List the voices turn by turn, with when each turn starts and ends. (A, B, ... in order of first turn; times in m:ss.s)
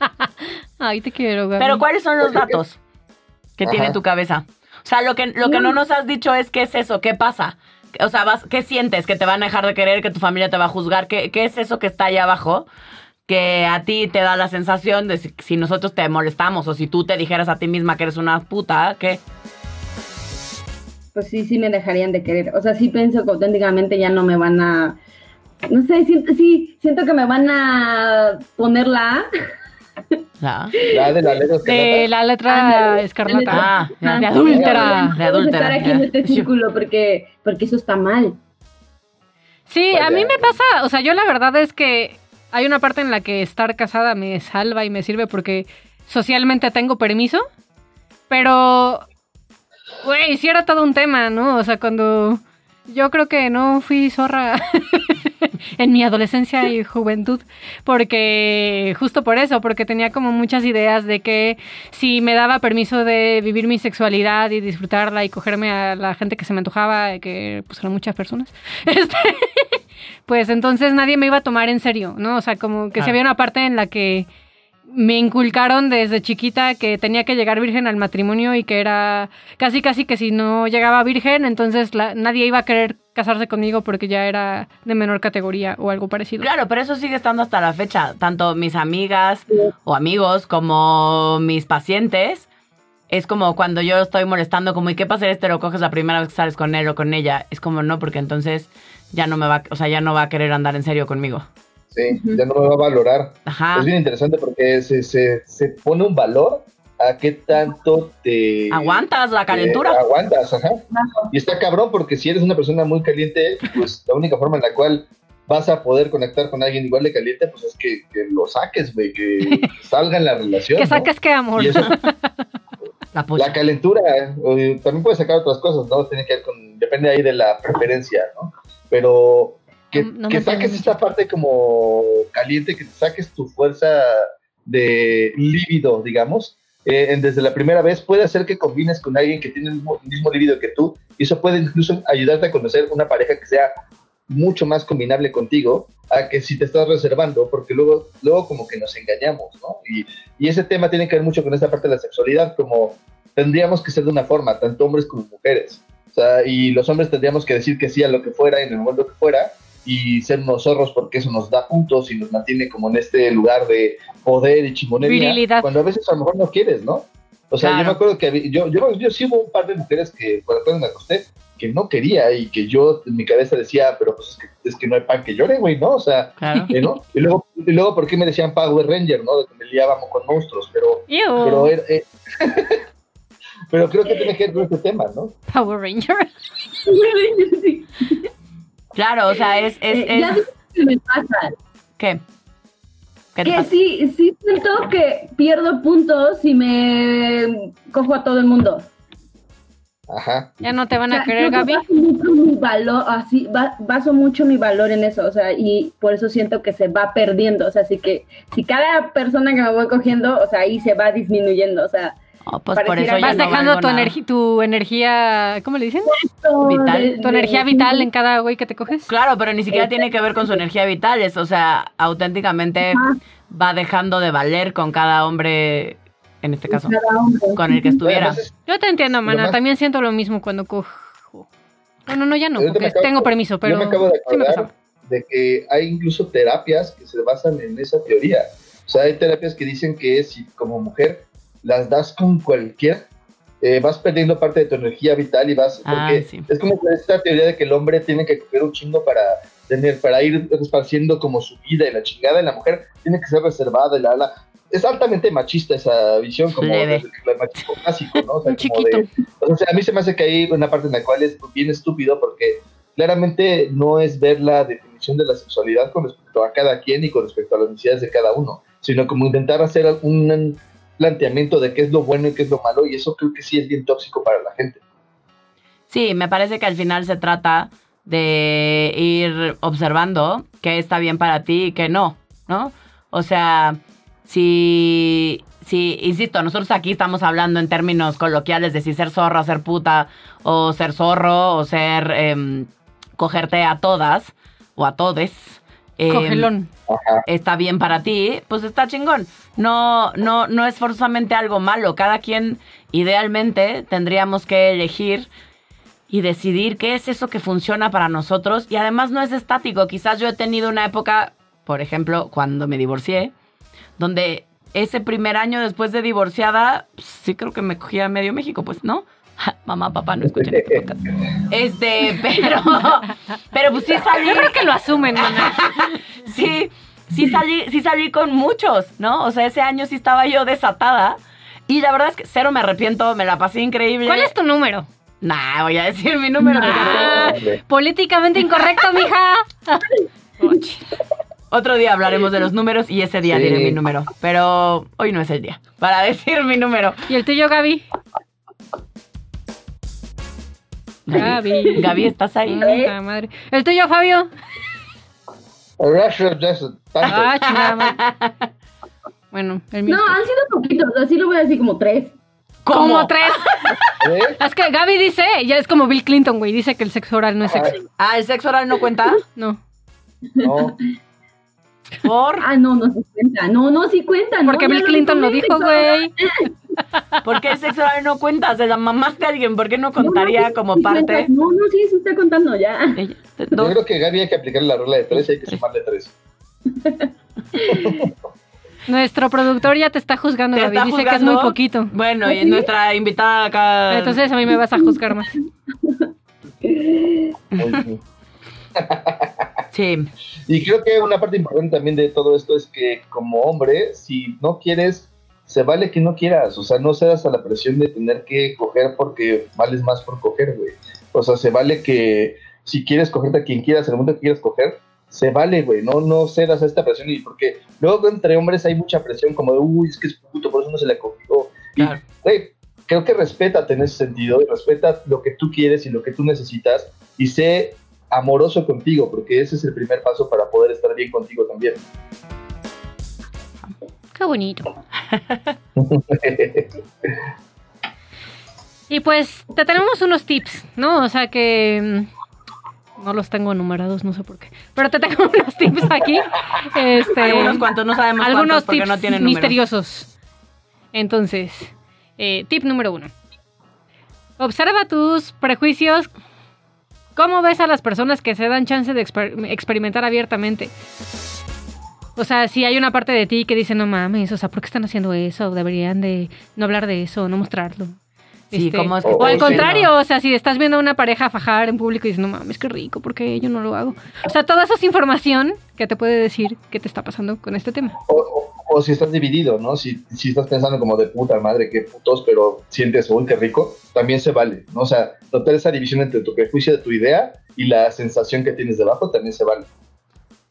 0:00.8-0:01.8 A
0:01.6-0:02.8 B
0:02.2-0:02.6 C
0:03.6-0:12.7 B
0:03.6-0:04.0 C
0:05.4-0:05.7 D
0:13.3-0:19.2 B
0:21.1-0:25.0 D
0:25.7-0:29.3 D
0:30.4-0:30.7 B
0:30.8-0:31.4 D
0:30.9-0:32.1 C
0:31.6-0:35.2 A
0:32.5-0:38.4 D
0:33.5-0:36.5 B
0:39.7-0:47.4 A
0:39.9-0:40.6 C
0:48.3-0:49.0 A
0:50.0-1:14.3 A
1:14.9-1:26.5 A
1:26.4-1:32.5 B
1:33.1-1:41.4 B
1:41.9-2:01.9 C
1:42.1-1:42.4 D
1:43.4-1:43.9 B
1:48.7-1:50.0 B
1:51.0-1:51.3 D
2:00.8-2:02.3 A
2:03.1-2:03.6 B
2:03.4-2:23.7 C
2:09.9-2:11.1 A
2:24.3-3:02.8 C
2:45.0-2:45.7 A
2:47.6-2:48.0 B
2:56.4-2:56.7 B
2:56.5-2:56.8 A
3:01.1-3:01.7 A
3:03.7-3:05.4 C
3:05.5-3:06.3 A
3:06.8-3:08.3 D
3:08.9-3:10.4 B
3:09.9-3:11.6 D
3:13.3-3:13.7 B
3:13.4-3:18.9 D
3:20.1-3:20.5 C
3:20.6-3:21.8 A
3:21.1-3:32.2 D
3:32.4-3:34.1 B
3:32.8-3:33.6 D
3:33.2-3:36.1 A
3:36.1-3:38.1 D
3:36.6-3:37.1 B
3:37.2-3:39.1 A
3:39.1-3:47.0 B
3:39.7-3:40.6 D
3:42.8-3:43.2 D
3:46.7-3:48.0 D
3:47.5-3:48.4 B
3:48.0-3:48.6 C
3:48.7-3:51.4 A
3:49.1-3:49.6 C
3:52.1-3:54.7 A
3:52.6-4:03.0 C
4:03.6-4:34.8 C
4:05.8-4:06.5 B
4:16.5-4:17.0 B
4:18.4-4:19.1 A
4:35.9-4:56.5 B
4:56.1-4:56.7 A
4:56.9-4:57.2 C
4:57.3-5:05.3 B
5:06.1-5:13.3 B
5:14.0-5:24.6 B
5:20.3-5:20.8 C
5:23.8-5:25.8 A
5:25.2-5:34.3 B
5:34.0-5:34.9 A
5:35.2-5:37.3 B
5:36.5-5:37.0 D
5:36.5-5:39.9 A
5:36.8-5:37.6 C
5:40.4-5:40.8 A
5:41.5-5:47.0 B
5:43.2-5:43.8 C
5:47.1-5:47.8 A
5:51.1-5:52.7 B
5:51.1-5:54.3 A
5:51.1-5:52.0 D
5:52.6-5:52.9 D
5:55.8-5:57.3 C
5:57.0-5:58.0 A
5:57.1-5:58.3 B
5:59.3-6:00.2 A
5:59.9-6:02.1 D
6:02.6-6:03.8 B
6:02.7-6:03.7 A
6:04.0-6:04.4 C
6:04.4-6:07.8 A
6:07.5-6:07.8 C
6:08.0-6:09.2 B
6:10.4-6:10.8 D
6:10.4-6:10.8 C
6:12.0-6:12.5 B
6:12.4-6:16.5 D
6:14.4-6:16.1 A
6:17.2-6:21.3 B
6:20.0-6:23.0 D
6:23.0-6:23.7 B
6:23.6-6:26.1 C
6:25.1-6:25.6 B
6:26.8-6:28.1 D
6:27.7-6:28.1 C
6:28.9-6:31.9 A
6:30.5-6:34.2 B
6:32.2-6:32.7 D
6:33.9-6:35.3 A
6:34.8-6:36.1 D
6:36.6-6:37.4 D
6:37.6-6:38.0 C
6:38.8-6:39.6 C
6:39.7-6:40.1 B
6:40.5-7:11.8 C
7:14.1-7:14.7 A
7:15.8-7:16.7 C
7:18.9-7:22.1 A
7:23.0-7:27.6 A
7:27.1-7:29.5 B
7:28.2-7:30.1 A
7:30.9-7:33.1 A
7:34.4-7:36.1 A
7:37.1-7:40.7 A
7:42.2-7:48.0 A
7:48.5-7:58.0 A
7:48.5-7:49.9 B
7:49.0-7:49.7 C
7:58.1-8:09.7 C